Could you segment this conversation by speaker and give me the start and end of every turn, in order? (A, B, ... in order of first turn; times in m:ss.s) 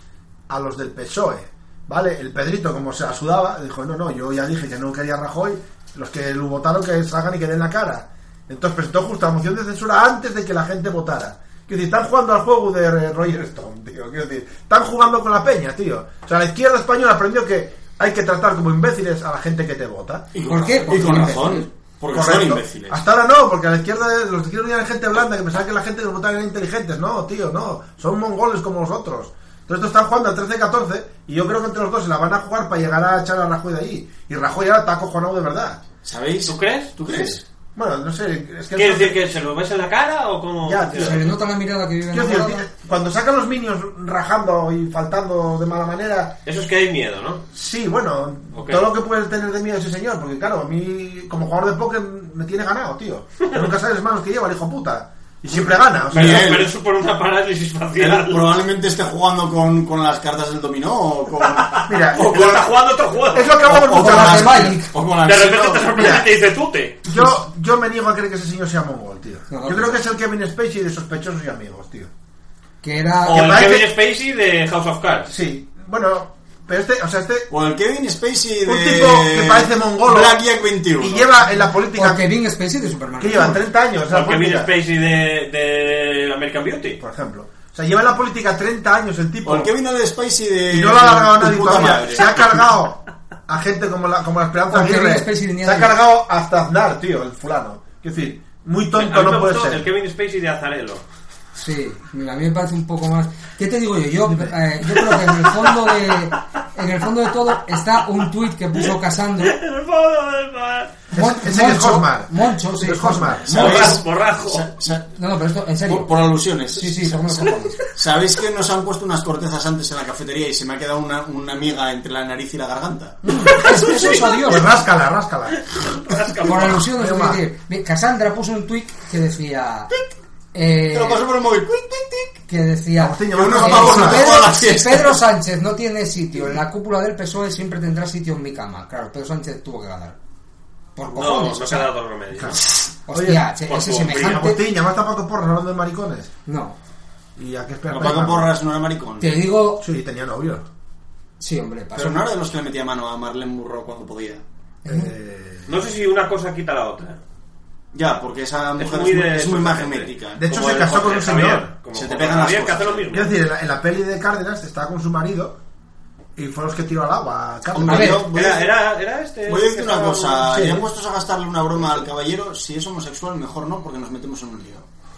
0:00.5-0:20.3 A
0:20.3-0:23.0 B
0:20.4-0:21.7 C
0:20.9-0:21.3 A
0:22.1-0:35.8 A
0:36.0-0:37.4 B
0:36.4-0:37.3 D
0:37.0-0:39.2 A
0:38.7-0:41.2 D
0:40.6-0:41.3 A
0:41.0-0:42.6 C
0:42.1-0:46.4 A
0:46.4-0:47.4 D
0:47.5-0:56.6 A
0:48.5-0:48.8 D
0:56.1-0:58.6 D
0:56.1-0:56.7 B
0:58.0-1:01.8 B
1:01.4-1:03.6 D
1:01.8-1:02.7 A
1:03.3-1:04.8 A
1:03.6-1:06.1 B
1:03.9-1:04.9 C
1:05.2-1:07.0 D
1:06.0-1:06.3 A
1:07.0-1:12.1 A
1:09.5-1:10.0 C
1:12.8-1:13.6 C
1:13.2-1:13.9 A
1:13.2-1:15.3 D
1:15.3-1:17.5 A
1:17.5-1:21.3 B
1:18.6-1:20.4 A
1:21.0-1:22.3 A
1:21.9-1:23.6 C
1:23.2-1:24.7 A
1:24.1-1:27.0 D
1:27.0-1:29.7 A
1:29.4-1:32.6 B
1:30.7-1:39.9 A
1:34.7-1:36.0 C
1:38.9-1:41.0 D
1:41.6-1:49.6 C
1:44.3-1:44.5 A
1:45.0-1:46.4 D
1:49.4-1:50.9 D
1:51.1-1:54.0 A
1:51.1-1:53.4 C
1:53.4-1:55.1 B
1:53.5-1:54.7 D
1:55.2-1:57.8 C
1:55.8-2:03.2 B
2:03.2-2:04.6 C
2:03.6-2:04.5 D
2:04.4-2:05.6 A
2:05.6-2:06.8 D
2:06.4-2:09.9 C
2:06.8-2:07.4 A
2:10.5-2:11.2 C
2:10.9-2:12.4 B
2:12.5-2:20.2 C
2:13.0-2:14.5 A
2:13.3-2:15.2 B
2:21.0-2:21.9 C
2:21.1-2:22.6 D
2:22.3-2:23.4 A
2:23.1-2:24.6 C
2:23.7-2:24.4 D
2:24.1-2:26.3 A
2:26.4-2:26.8 C
2:27.4-2:28.5 A
2:27.9-2:29.4 B
2:29.2-2:29.8 C
2:29.8-2:30.6 A
2:31.4-2:32.2 C
2:31.9-2:34.4 B
2:34.8-2:35.1 C
2:34.8-2:35.8 A
2:35.7-2:37.2 D
2:37.9-2:40.4 B
2:38.8-2:43.3 D
2:40.4-2:41.7 A
2:41.9-2:43.1 B
2:43.1-2:45.6 A
2:46.4-2:48.2 A
2:47.7-2:48.7 B
2:47.9-2:48.2 C
2:48.3-2:50.7 D
2:49.5-2:54.8 B
2:50.5-2:50.8 A